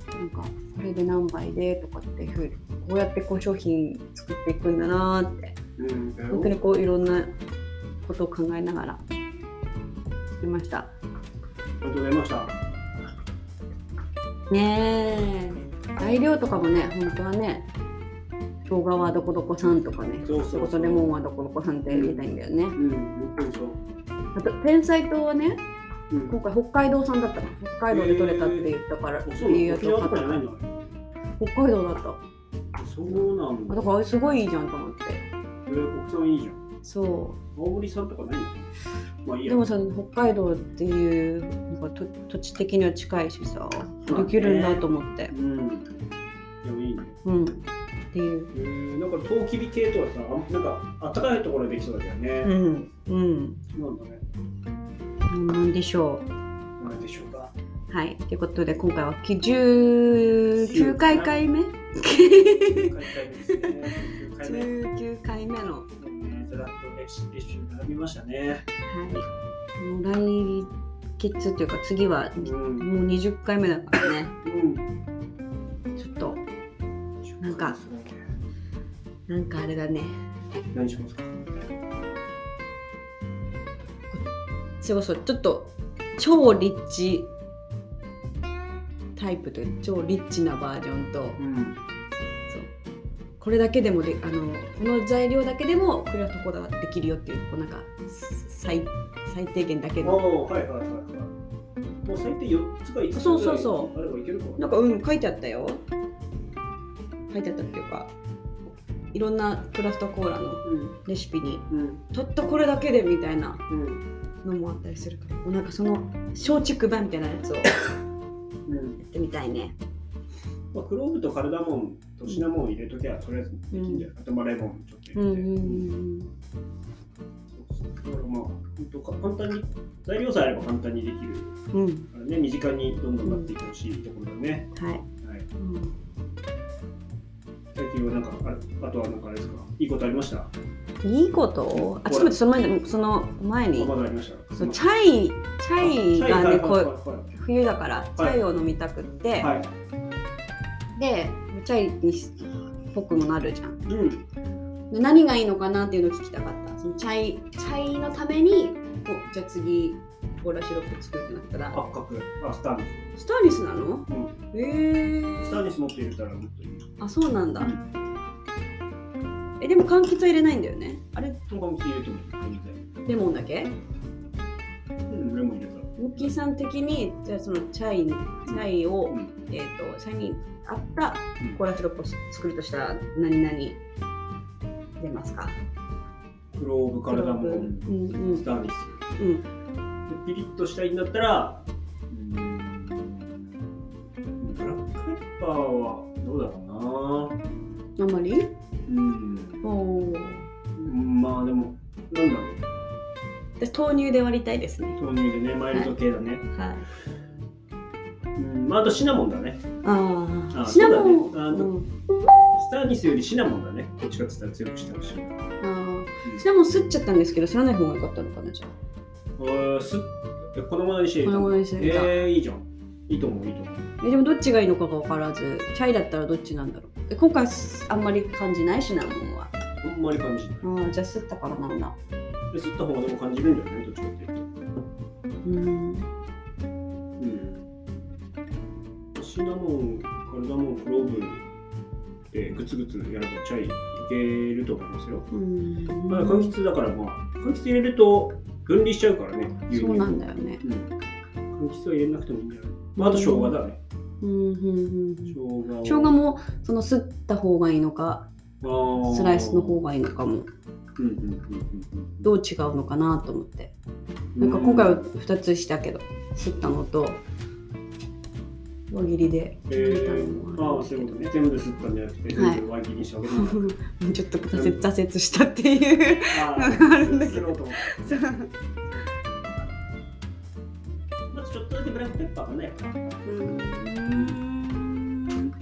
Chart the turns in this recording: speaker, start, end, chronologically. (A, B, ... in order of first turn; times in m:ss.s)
0:00.2-0:05.5 A
0:05.8-0:06.6 B
0:06.3-0:07.3 A
0:08.0-0:09.0 A
0:10.4-0:10.9 A
0:11.8-0:12.6 B
0:14.5-0:17.7 A
0:18.7-0:22.8 A
0:20.2-0:21.1 B
0:21.9-0:23.8 B
0:24.3-0:25.6 A
0:26.1-0:26.4 B
0:26.3-0:30.4 A
0:27.9-0:30.7 B
0:31.4-0:32.2 A
0:32.8-0:33.9 B
0:33.7-0:35.2 A
0:35.6-0:36.6 B
0:36.8-0:37.4 A
0:37.5-0:38.7 B
0:39.2-0:39.7 B
0:39.4-0:45.3 A
0:44.0-0:45.9 B
0:46.6-0:47.2 B
0:47.2-0:48.5 A
0:48.5-0:52.5 B
0:52.4-0:53.6 A
0:53.7-0:54.2 B
0:55.3-0:56.3 A
0:56.8-0:57.5 B
0:57.9-1:02.9 A
1:00.5-1:01.4 B
1:02.1-1:04.7 B
1:03.5-1:05.9 A
1:06.0-1:08.6 B
1:08.9-1:09.2 A
1:09.8-1:14.3 A
1:12.4-1:12.9 B
1:14.0-1:14.9 B
1:16.0-1:16.4 A
1:17.2-1:18.2 B
1:17.4-1:17.8 A
1:19.3-1:20.2 A
1:20.7-1:21.3 B
1:24.8-1:27.3 A
1:29.2-1:31.4 A
1:31.4-1:31.8 B
1:33.4-1:40.2 A
1:40.0-1:41.3 B
1:42.0-1:44.7 B
1:43.1-1:43.9 A
1:44.6-1:45.8 A
1:47.3-1:48.1 A
1:49.1-1:53.6 A
1:50.6-1:50.9 B
1:51.7-1:52.0 B
1:53.7-1:54.0 B
1:54.4-1:57.8 A
1:58.7-1:59.0 B
1:59.0-1:59.8 A
2:00.7-2:05.9 B
2:03.7-2:04.1 A
2:05.2-2:06.3 A
2:07.5-2:11.6 B
2:11.7-2:12.1 A
2:12.1-2:15.5 B
2:13.2-2:13.5 A
2:14.7-2:15.0 A
2:15.6-2:15.9 A
2:17.7-2:20.5 B
2:21.0-2:23.9 A
2:21.7-2:22.4 B
2:23.8-2:24.8 B
2:24.6-2:29.5 A
2:25.8-2:27.3 B
2:29.4-2:29.7 B
2:31.0-2:33.8 A
2:33.8-2:34.2 B
2:34.9-2:41.8 A
2:41.7-2:43.0 B
2:43.2-2:45.6 A
2:44.1-2:44.3 B
2:45.4-2:46.9 B
2:47.0-2:47.8 A
2:49.6-2:51.4 A
2:51.5-2:52.8 B
2:53.0-2:53.8 A
2:55.1-2:56.4 B
2:56.0-3:03.8 A
2:58.4-2:59.3 B
3:05.0-3:05.6 A
3:06.5-3:09.0 B
3:07.0-3:08.4 A
3:09.2-3:09.4 A
3:10.1-3:13.6 B
3:14.4-3:17.4 B
3:18.0-3:18.5 A
3:18.9-3:19.7 B
3:19.6-3:20.5 A
3:20.8-3:22.6 B
3:23.6-3:25.0 A
3:25.0-3:26.5 B
3:26.5-3:26.9 A
3:28.4-3:29.6 B
3:29.8-3:31.9 A
3:30.5-3:31.8 B
3:32.5-3:35.4 B
3:35.6-3:38.7 A
3:39.4-3:43.8 B
3:41.2-3:42.1 A
3:44.0-3:49.5 A
3:49.8-3:50.7 B
3:50.6-3:51.9 A
3:52.5-3:54.5 B
3:55.4-3:56.1 A
3:57.2-3:57.6 B
3:59.1-4:01.4 B
4:02.3-4:05.3 B
4:05.3-4:06.5 A
4:06.1-4:10.9 B
4:09.7-4:10.6 A
4:11.5-4:13.8 B
4:13.0-4:13.5 A
4:14.2-4:18.3 A
4:15.3-4:16.1 B
4:18.6-4:19.8 B
4:19.0-4:20.5 A
4:21.0-4:22.3 B
4:22.2-4:23.7 A
4:24.4-4:25.0 B
4:24.4-4:27.2 A
4:28.9-4:31.3 A
4:29.7-4:33.7 B
4:32.3-4:32.6 A
4:33.2-4:38.5 A
4:34.5-4:34.8 B
4:36.3-4:39.1 B
4:41.2-4:43.0 B
4:43.2-4:45.5 A